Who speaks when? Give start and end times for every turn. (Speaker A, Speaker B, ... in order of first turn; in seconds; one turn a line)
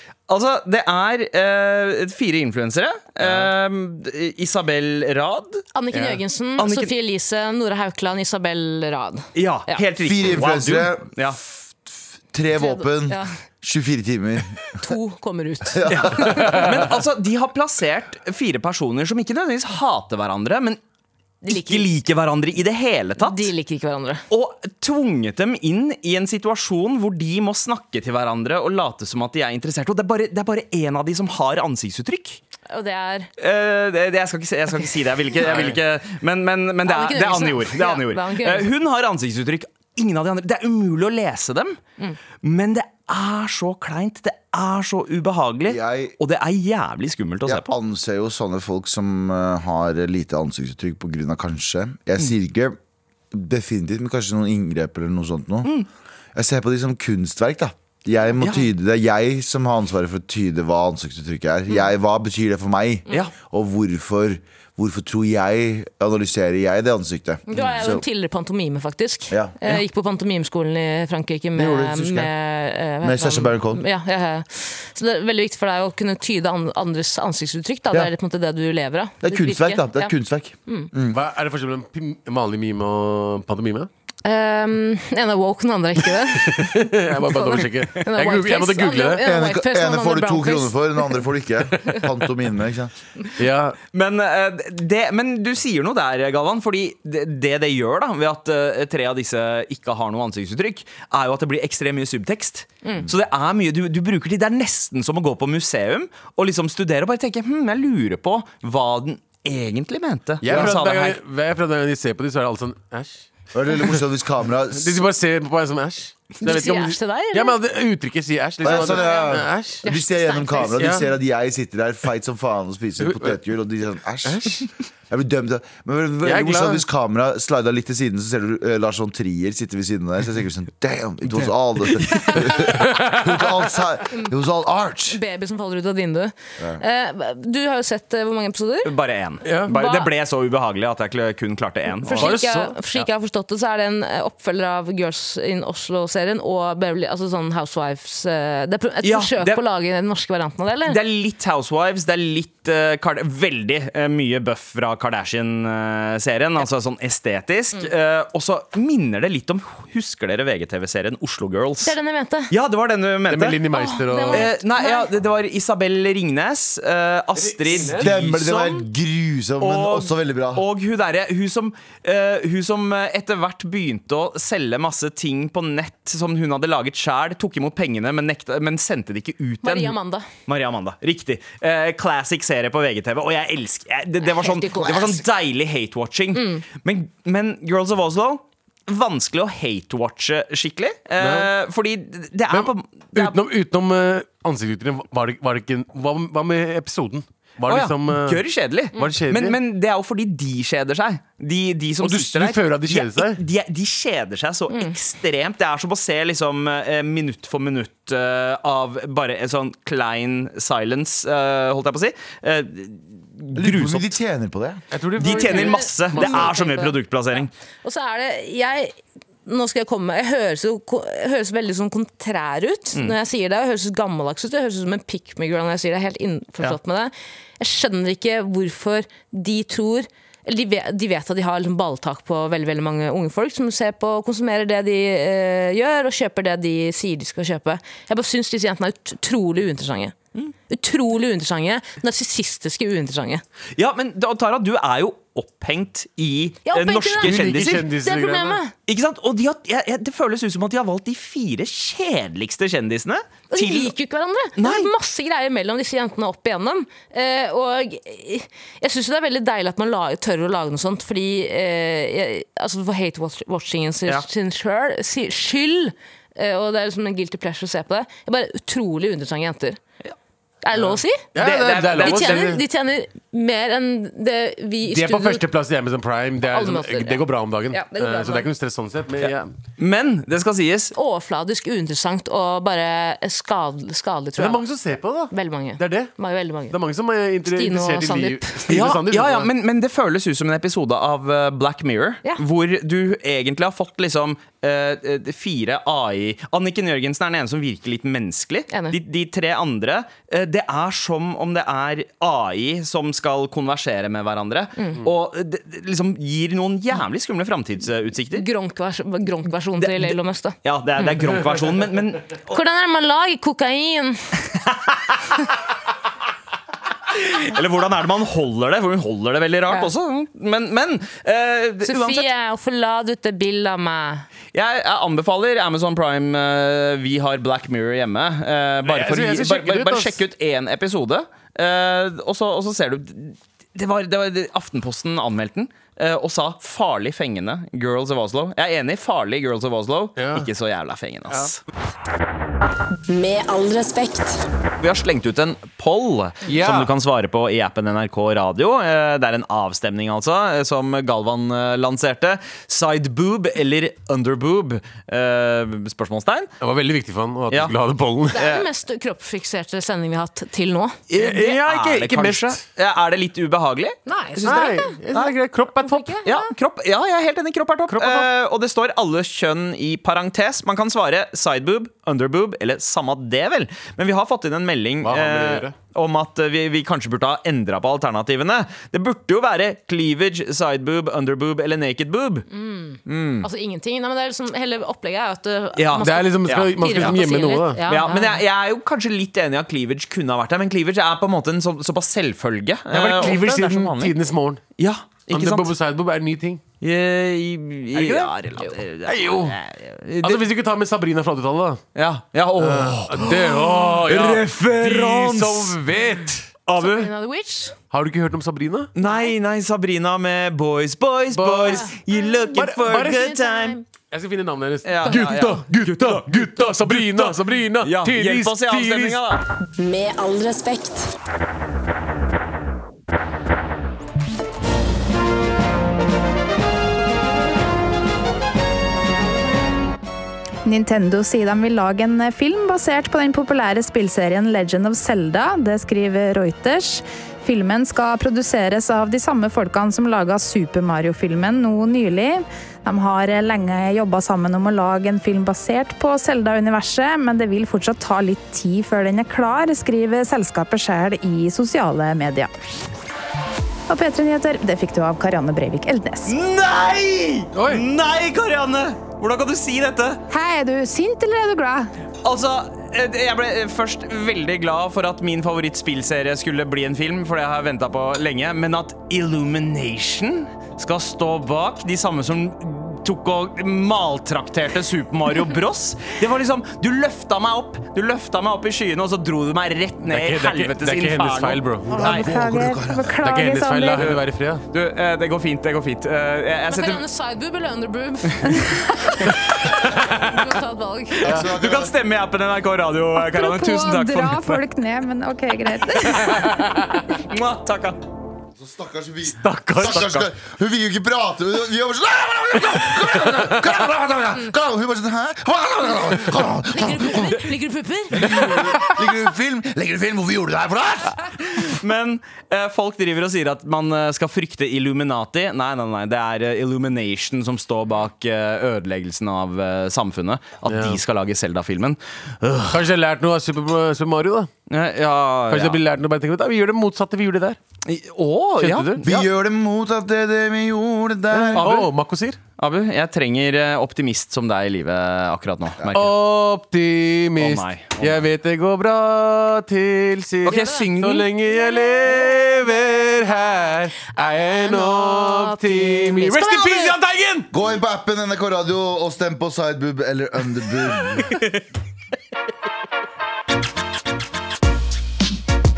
Speaker A: 0.3-5.7
Speaker B: 5.7-9.8
Speaker C: 5.9-6.2
Speaker A: 6.6-6.9
Speaker A: 9.4-11.4
Speaker D: 10.0-14.6
Speaker B: 12.6-13.3
Speaker B: 14.8-16.6
Speaker D: 15.7-16.4
Speaker A: 15.9-20.8
Speaker B: 21.4-21.9
Speaker A: 21.5-23.5
Speaker B: 23.2-24.2
Speaker A: 24.3-32.4
Speaker B: 32.7-33.3
Speaker A: 33.4-41.8
Speaker C: 35.5-35.8
Speaker B: 36.9-38.7
Speaker A: 42.4-47.7
Speaker D: 45.7-46.1
Speaker D: 47.5-52.8
Speaker D: 53.3-55.7
Speaker D: 56.4-68.0
Speaker A: 58.4-58.7
Speaker B: 67.5-80.1
Speaker D: 69.3-69.8
Speaker D: 71.5-72.3
Speaker D: 73.0-73.8
Speaker D: 79.2-81.2
Speaker C: 81.1-83.9
Speaker B: 84.2-91.2
Speaker C: 86.3-89.2
Speaker D: 89.2-92.9
Speaker C: 93.4-93.8
Speaker A: 93.9-111.2
Speaker C: 110.4-113.3
Speaker D: 113.5-115.0
Speaker C: 114.7-119.8
Speaker B: 116.4-117.6
Speaker D: 118.6-135.2
Speaker B: 118.7-120.9
Speaker C: 120.8-121.0
Speaker C: 123.0-123.3
Speaker C: 124.2-124.7
Speaker C: 126.2-126.8
Speaker C: 132.0-133.3
Speaker B: 135.1-138.9
Speaker A: 138.8-142.4
Speaker C: 139.4-139.7
Speaker B: 139.7-140.1
Speaker C: 142.1-143.0
Speaker B: 142.1-151.0
Speaker A: 149.0-149.6
Speaker A: 150.8-162.0
Speaker B: 161.8-162.5
Speaker A: 162.5-163.6
Speaker C: 163.3-164.5
Speaker B: 163.7-165.1
Speaker A: 164.3-168.9
Speaker C: 167.4-168.1
Speaker D: 167.9-170.6
Speaker A: 169.6-193.4
Speaker B: 179.6-180.3
Speaker B: 184.2-185.1
Speaker D: 184.8-185.2
Speaker B: 186.3-186.6
Speaker C: 191.2-191.5
Speaker C: 192.5-198.4
Speaker A: 197.7-214.1
Speaker C: 198.9-199.6
Speaker C: 202.0-203.4
Speaker D: 213.6-214.8
Speaker C: 214.9-216.5
Speaker A: 215.2-217.5
Speaker B: 215.2-217.0
Speaker B: 217.8-240.2
Speaker B: 240.7-243.4
Speaker A: 243.8-247.9
Speaker B: 246.7-248.7
Speaker C: 247.2-248.6
Speaker A: 248.9-253.9
Speaker B: 253.5-269.8
Speaker A: 254.6-254.9
Speaker B: 270.6-271.3
Speaker C: 271.3-272.6
Speaker A: 271.4-272.5
Speaker B: 271.9-275.4
Speaker C: 274.8-279.5
Speaker B: 276.5-278.5
Speaker A: 279.2-280.9
Speaker B: 280.9-284.6
Speaker C: 284.4-286.1
Speaker B: 285.3-286.8
Speaker C: 286.7-289.5
Speaker B: 287.5-288.7
Speaker A: 288.7-308.5
Speaker B: 298.7-299.0
Speaker B: 308.4-311.1
Speaker A: 309.8-312.6
Speaker B: 312.5-314.3
Speaker A: 314.7-315.1
Speaker A: 317.1-322.3
Speaker B: 321.8-324.3
Speaker A: 324.5-341.6
Speaker C: 328.8-330.2
Speaker C: 340.2-340.5
Speaker E: 343.1-344.4
Speaker A: 344.8-356.5
Speaker C: 346.5-346.9
Speaker C: 356.6-358.4
Speaker B: 358.3-361.0
Speaker A: 358.3-358.7
Speaker A: 361.1-365.4
Speaker C: 361.1-362.6
Speaker B: 364.1-365.0
Speaker C: 364.4-366.2
Speaker B: 365.8-366.5
Speaker A: 366.2-382.5
Speaker C: 367.9-368.3
Speaker C: 375.0-375.8
Speaker B: 382.5-388.4
Speaker A: 383.1-383.5
Speaker A: 385.8-387.2
Speaker C: 386.0-387.8
Speaker A: 387.9-394.1
Speaker C: 392.9-394.6
Speaker A: 394.8-395.7
Speaker C: 395.3-396.6
Speaker A: 396.8-400.5
Speaker C: 397.9-398.3
Speaker C: 399.0-399.6
Speaker C: 400.2-401.8
Speaker A: 401.9-405.8
Speaker C: 402.6-406.5
Speaker A: 406.7-407.1
Speaker B: 406.8-407.8
Speaker C: 407.9-408.9
Speaker A: 409.0-413.8
Speaker B: 409.0-409.3
Speaker C: 411.3-411.9
Speaker B: 411.7-412.0
Speaker C: 412.6-413.3
Speaker B: 412.9-413.8
Speaker C: 414.1-419.2
Speaker A: 414.9-419.4
Speaker E: 419.8-421.1
Speaker F: 430.6-452.5
Speaker F: 453.9-456.3
Speaker A: 456.3-460.2
Speaker C: 457.6-457.8
Speaker F: 460.3-461.9
Speaker A: 462.2-482.3
Speaker C: 480.1-482.1
Speaker F: 481.9-484.1
Speaker D: 482.0-483.2
Speaker C: 483.2-484.6
Speaker A: 484.0-487.0
Speaker B: 486.7-491.3
Speaker C: 489.9-490.4
Speaker D: 491.2-491.9
Speaker A: 491.2-494.6
Speaker F: 493.2-496.5
Speaker A: 497.2-498.0
Speaker D: 498.6-507.4
Speaker C: 499.4-500.1
Speaker A: 499.9-500.3
Speaker B: 506.7-508.6
Speaker D: 508.1-511.3
Speaker A: 511.5-522.9
Speaker C: 520.7-521.0
Speaker C: 522.7-524.5
Speaker A: 524.7-525.8
Speaker C: 525.5-527.6
Speaker A: 527.9-529.2
Speaker C: 528.6-529.1
Speaker D: 529.0-531.7
Speaker C: 531.3-532.4
Speaker A: 531.5-531.9
Speaker A: 532.6-536.1
Speaker C: 535.9-547.5
Speaker A: 537.4-538.2
Speaker A: 540.5-541.3
Speaker B: 540.5-540.9
Speaker B: 541.5-542.5
Speaker B: 544.5-547.0
Speaker D: 547.5-551.4
Speaker A: 551.3-551.6